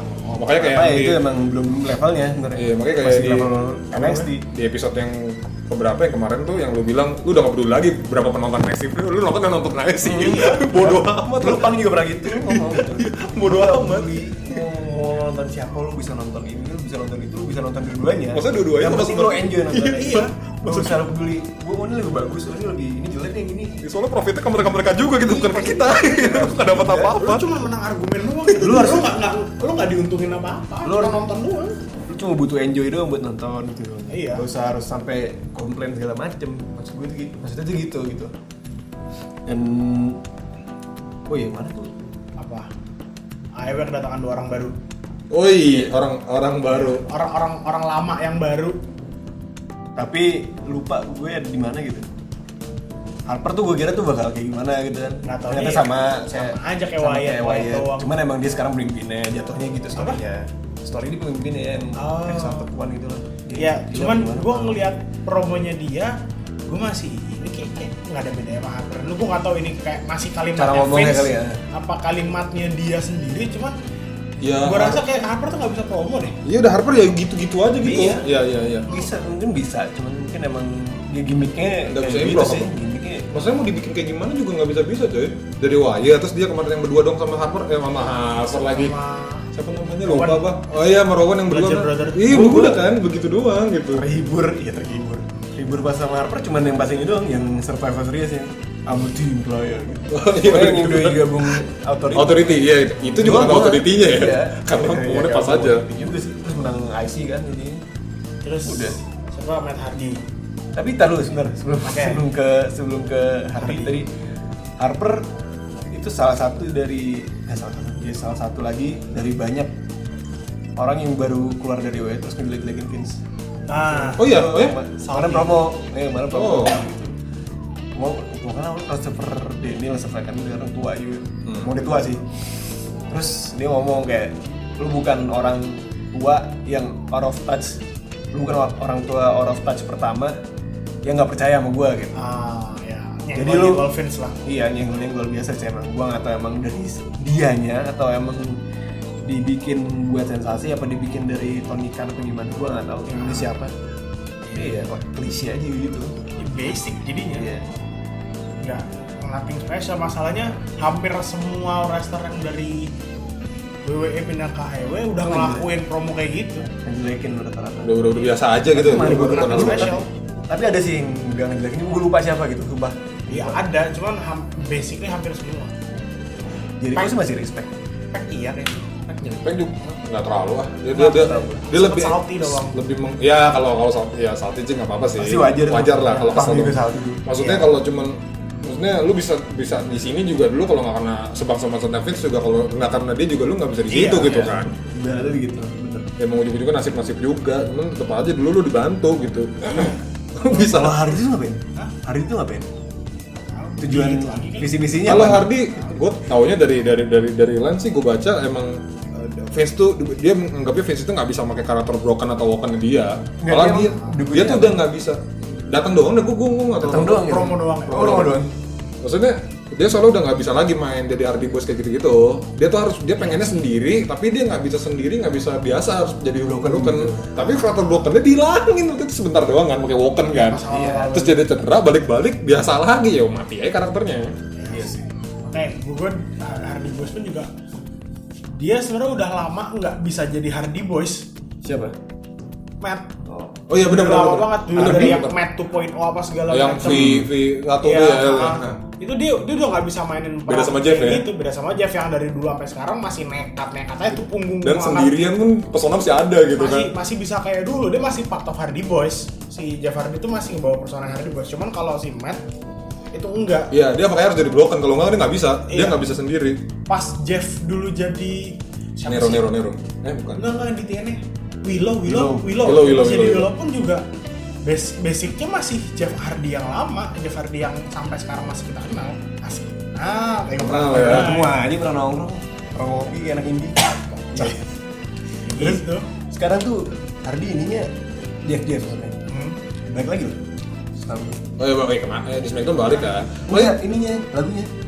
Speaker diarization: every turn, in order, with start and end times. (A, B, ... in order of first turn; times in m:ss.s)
0:00.3-0:04.4 A
0:00.3-0:01.2 B
0:02.6-0:14.6 B
0:10.0-0:23.8 A
0:18.3-0:21.0 B
0:19.9-0:20.3 C
0:23.8-0:27.6 B
0:25.2-0:27.2 A
0:27.1-0:31.8 C
0:28.5-0:29.0 B
0:28.6-0:29.0 A
0:30.8-0:31.3 A
0:32.1-0:38.3 A
0:34.1-0:34.4 C
0:39.4-0:40.2 A
0:41.3-0:41.9 A
0:42.4-0:42.7 C
0:43.6-0:44.8 C
0:45.3-0:47.0 B
0:46.7-0:48.8 C
0:50.0-0:52.1 A
0:53.3-1:04.9 A
0:55.2-0:58.1 C
0:59.9-1:00.2 C
1:02.0-1:02.7 C
1:03.6-1:06.1 C
1:06.7-1:13.8 C
1:10.6-1:11.6 A
1:14.4-1:15.0 B
1:14.6-1:16.4 C
1:16.4-1:18.9 B
1:17.8-1:18.2 C
1:17.8-1:18.2 A
1:18.9-1:23.3 A
1:21.9-1:22.7 B
1:23.3-1:29.0 B
1:28.5-1:29.5 C
1:29.5-1:34.0 B
1:30.0-1:30.4 C
1:31.5-1:32.2 C
1:32.3-1:32.8 A
1:33.9-1:47.8 A
1:40.1-1:41.6 B
1:42.1-1:45.8 B
1:48.4-1:50.2 C
1:48.6-1:49.0 A
1:50.7-1:54.1 A
1:51.8-1:52.2 C
1:53.6-1:53.9 C
1:54.8-1:55.2 A
1:55.9-1:59.7 A
2:00.8-2:03.2 A
2:03.7-2:04.3 C
2:03.8-2:07.1 A
2:04.2-2:04.8 B
2:05.0-2:05.6 C
2:06.3-2:06.8 B
2:08.0-2:12.2 A
2:11.4-2:11.7 B
2:13.1-2:17.8 A
2:18.3-2:20.3 A
2:21.0-2:22.2 A
2:22.1-2:24.4 C
2:23.3-2:23.8 A
2:24.4-2:28.6 A
2:29.2-2:33.7 A
2:33.1-2:33.5 C
2:34.4-2:34.8 C
2:34.5-2:36.1 A
2:36.4-2:37.5 C
2:37.3-2:37.6 A
2:38.6-2:42.9 C
2:43.8-2:46.7 C
2:45.2-2:45.7 A
2:46.8-2:48.1 A
2:47.8-2:49.9 B
2:48.7-2:53.6 A
2:48.9-2:50.0 C
2:53.3-2:55.7 C
2:56.8-2:57.7 A
2:58.1-2:59.3 C
2:59.2-3:14.7 B
3:01.0-3:01.6 A
3:01.0-3:02.8 C
3:05.2-3:07.2 A
3:07.4-3:07.6 C
3:13.9-3:14.5 C
3:14.2-3:16.1 A
3:16.2-3:21.1 B
3:20.5-3:22.7 A
3:23.3-3:24.8 C
3:23.8-3:25.5 A
3:25.0-3:37.3 B
3:33.4-3:34.8 A
3:36.8-3:38.5 A
3:37.1-3:38.3 C
3:37.9-3:38.4 B
3:39.0-3:54.3 B
3:43.2-3:43.6 C
3:46.4-3:47.3 A
3:50.3-3:51.4 C
3:50.7-3:51.1 A
3:54.5-3:57.5 C
3:54.7-3:55.0 A
3:58.5-4:01.3 C
4:01.6-4:01.9 A
4:02.8-4:03.1 C
4:03.2-4:03.5 A
4:03.7-4:05.3 B
4:03.8-4:07.2 C
4:04.8-4:05.2 A
4:06.5-4:08.8 B
4:06.9-4:07.2 A
4:07.8-4:15.2 C
4:10.5-4:11.2 B
4:14.6-4:16.9 B
4:16.6-4:22.4 C
4:23.1-4:23.7 C
4:23.7-4:26.6 B
4:25.7-4:26.0 C
4:26.9-4:29.4 C
4:29.1-4:30.4 B
4:30.4-4:34.0 C
4:32.0-4:32.5 A
4:32.6-4:33.5 B
4:34.6-4:41.6 C
4:40.6-4:41.4 B
4:40.9-4:43.8 A
4:44.2-4:44.5 C
4:44.3-4:44.6 A
4:45.4-4:46.1 C
4:45.5-4:47.9 A
4:48.4-4:49.1 A
4:49.3-4:49.6 C
4:49.8-4:50.4 A
4:50.9-4:51.4 A
4:51.6-4:53.8 B
4:53.5-4:54.7 A